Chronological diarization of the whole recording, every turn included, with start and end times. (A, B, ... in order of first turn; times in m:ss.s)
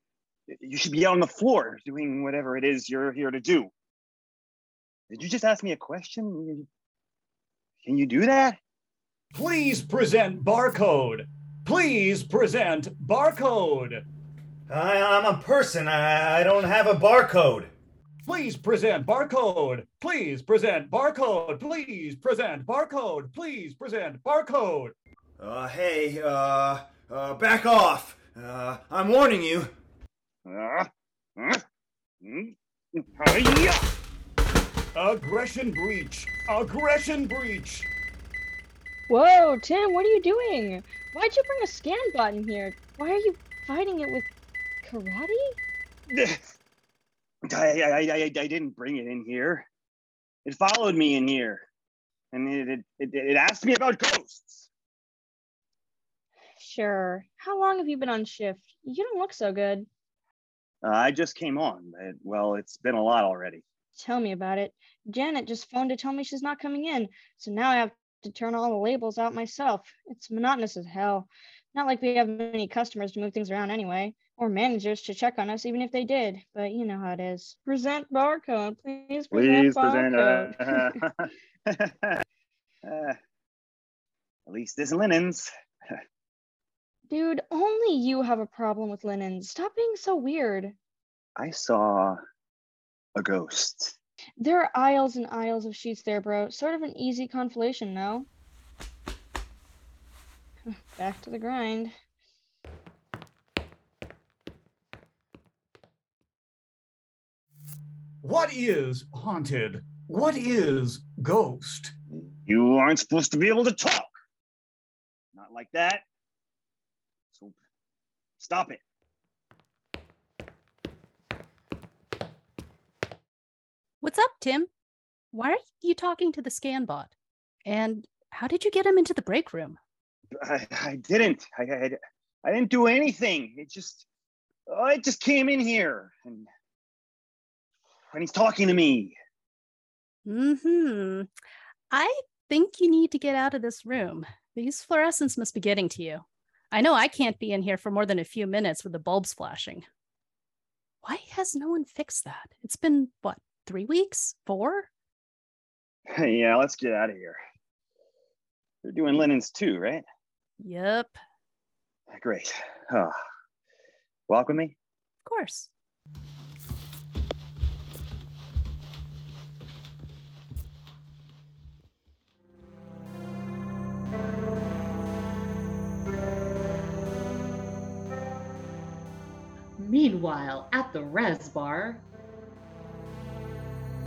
0:00.5-0:03.7 A
0:05.1-0:06.7 A
0:07.8-0:08.6 A
0:09.3-0:14.0 B
0:14.7-0:17.7 C
0:18.2-0:24.9 B
0:25.4-0:29.7 C
0:30.4-0:31.6 A
0:32.2-0:33.8 A
0:34.9-0:37.9 B
0:39.1-0:44.3 D
0:44.8-0:45.6 D
0:46.1-0:46.5 A
0:47.5-0:49.6 A
0:50.4-0:51.6 A
0:52.3-0:54.7 A
0:56.6-0:59.9 D
1:00.8-1:03.6 A
1:04.0-1:21.0 D
1:19.3-1:22.2 A
1:22.8-1:23.2 A
1:24.5-1:26.0 A
1:27.1-1:30.7 D
1:31.4-1:32.2 A
1:33.2-1:33.9 A
1:34.4-1:38.3 D
1:40.7-1:41.9 D
1:48.2-1:51.9 B
1:52.1-1:54.1 A
1:55.3-1:56.0 A
1:58.4-1:58.8 A
2:04.0-2:04.7 E
2:05.3-2:07.1 E
2:07.6-2:09.8 E
2:10.4-2:14.0 A
2:14.7-2:16.5 A
2:18.1-2:19.1 A
2:20.2-2:21.3 E
2:21.9-2:29.8 E
2:31.0-2:34.9 E
2:36.1-2:37.4 A
2:38.8-2:40.0 A
2:40.6-2:41.2 E
2:42.1-2:43.1 A
2:44.3-2:44.8 A
2:45.2-2:45.7 E
2:59.8-3:02.0 F